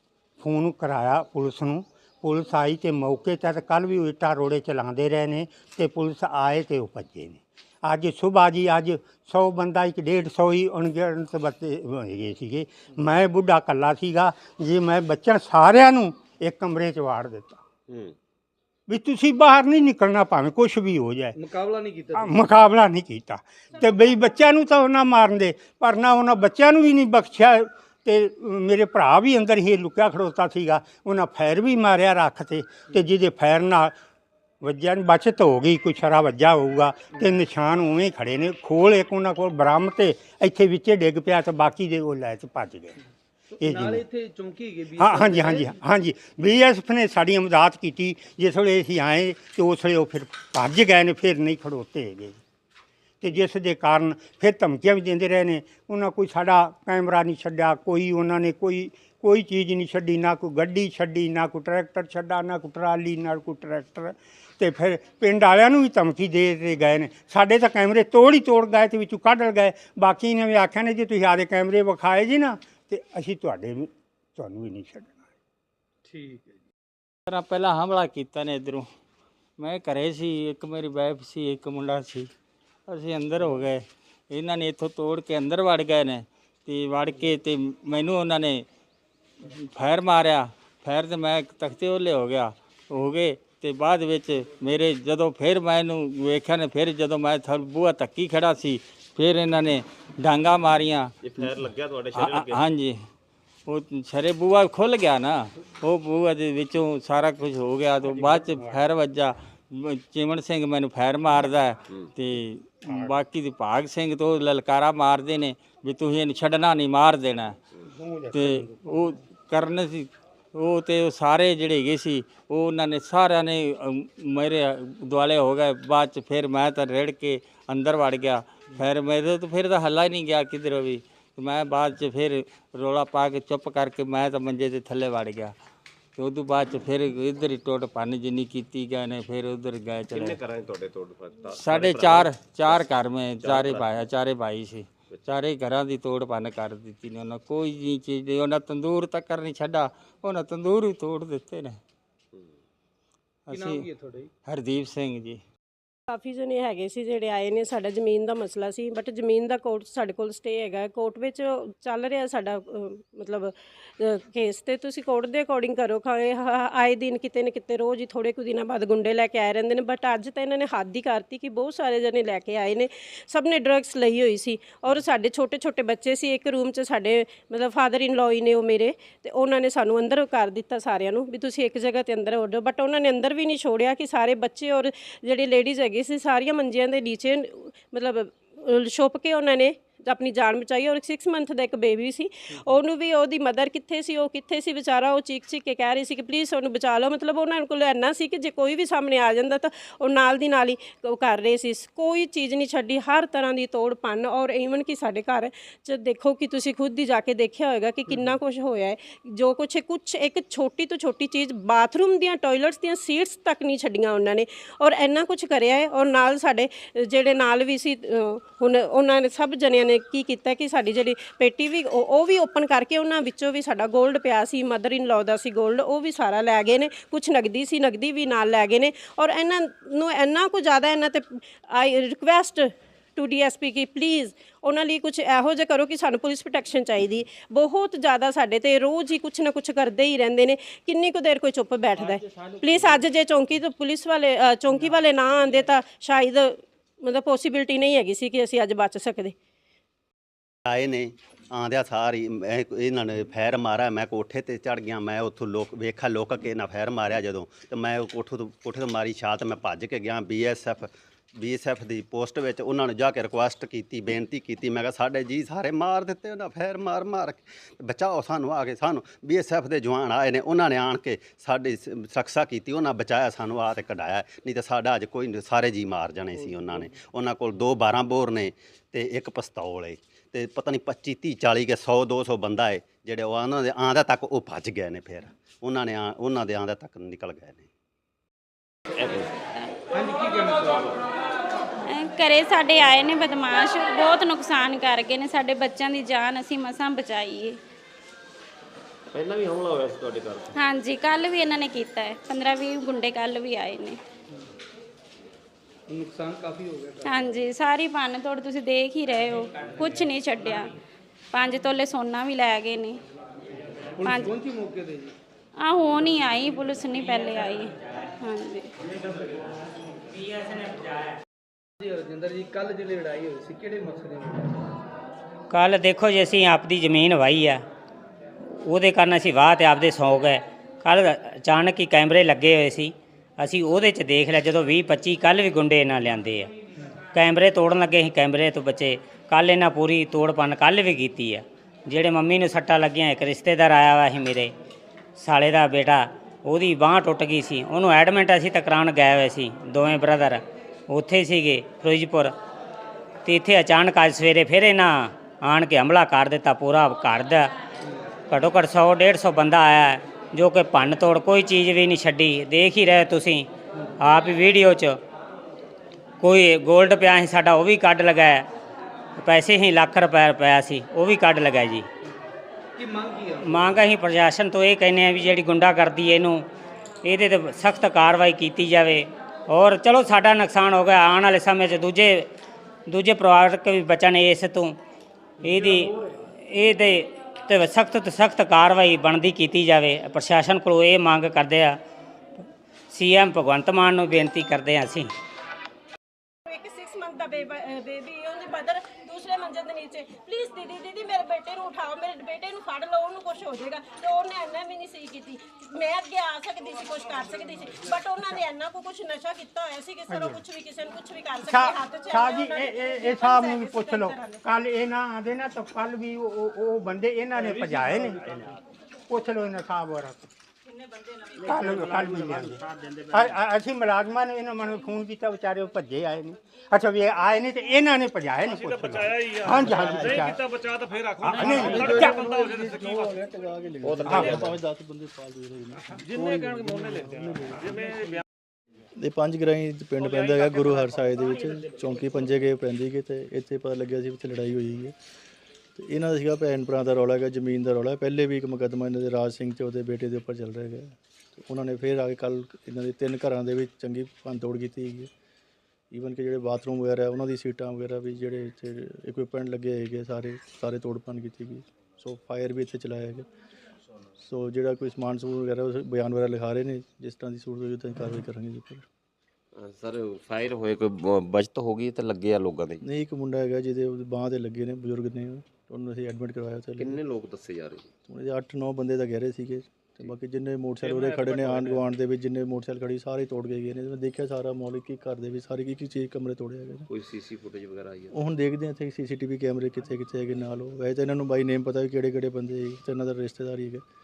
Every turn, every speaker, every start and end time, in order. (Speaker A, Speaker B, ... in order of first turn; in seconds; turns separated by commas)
Speaker A: 0.4-17.6, Speaker A: 18.9-21.4, Speaker B: 21.4-22.4, Speaker A: 22.2-33.9, Speaker A: 34.6-43.0, Speaker B: 43.6-45.6, Speaker A: 43.6-44.0, Speaker A: 45.0-52.4, Speaker A: 53.2-75.1, Speaker B: 76.1-76.5, Speaker C: 77.3-78.9, Speaker C: 79.6-82.3, Speaker C: 82.9-88.7, Speaker C: 89.4-101.1, Speaker D: 101.3-102.6, Speaker C: 102.1-103.0, Speaker C: 103.7-117.6, Speaker A: 108.2-108.8, Speaker A: 112.9-113.2, Speaker A: 118.0-118.7, Speaker C: 118.3-135.6, Speaker C: 136.2-140.4, Speaker D: 140.2-142.2, Speaker C: 141.5-151.8, Speaker D: 143.4-143.8, Speaker C: 153.5-153.9, Speaker B: 153.6-154.3, Speaker C: 154.4-155.4, Speaker E: 156.1-249.3, Speaker C: 242.0-243.1, Speaker F: 250.7-287.7, Speaker B: 290.4-290.7, Speaker G: 291.9-297.6, Speaker D: 299.1-300.5, Speaker G: 300.6-304.0, Speaker B: 305.9-307.4, Speaker G: 307.1-310.7, Speaker G: 311.3-313.0, Speaker B: 314.0-315.1, Speaker G: 315.6-318.7, Speaker B: 321.9-324.4, Speaker H: 325.5-327.6, Speaker H: 328.6-336.5, Speaker H: 337.1-344.5, Speaker H: 345.2-352.3, Speaker H: 353.3-357.5, Speaker H: 358.3-363.5, Speaker H: 364.0-365.0, Speaker H: 366.2-368.5, Speaker H: 369.2-371.9, Speaker B: 372.8-373.4, Speaker H: 373.4-376.5, Speaker H: 377.0-382.3, Speaker H: 382.9-384.8, Speaker H: 385.4-391.8, Speaker H: 392.9-395.1, Speaker E: 396.5-414.4, Speaker A: 410.1-410.4, Speaker A: 411.5-418.3, Speaker A: 419.1-420.3, Speaker A: 421.4-430.4, Speaker A: 431.2-432.2, Speaker I: 431.4-438.2, Speaker A: 434.1-434.4, Speaker I: 439.0-444.9, Speaker I: 445.8-455.1, Speaker I: 455.9-463.3, Speaker I: 464.2-468.9, Speaker D: 469.6-472.7, Speaker I: 472.8-477.0, Speaker D: 476.9-477.8, Speaker I: 478.1-486.9, Speaker I: 488.1-493.8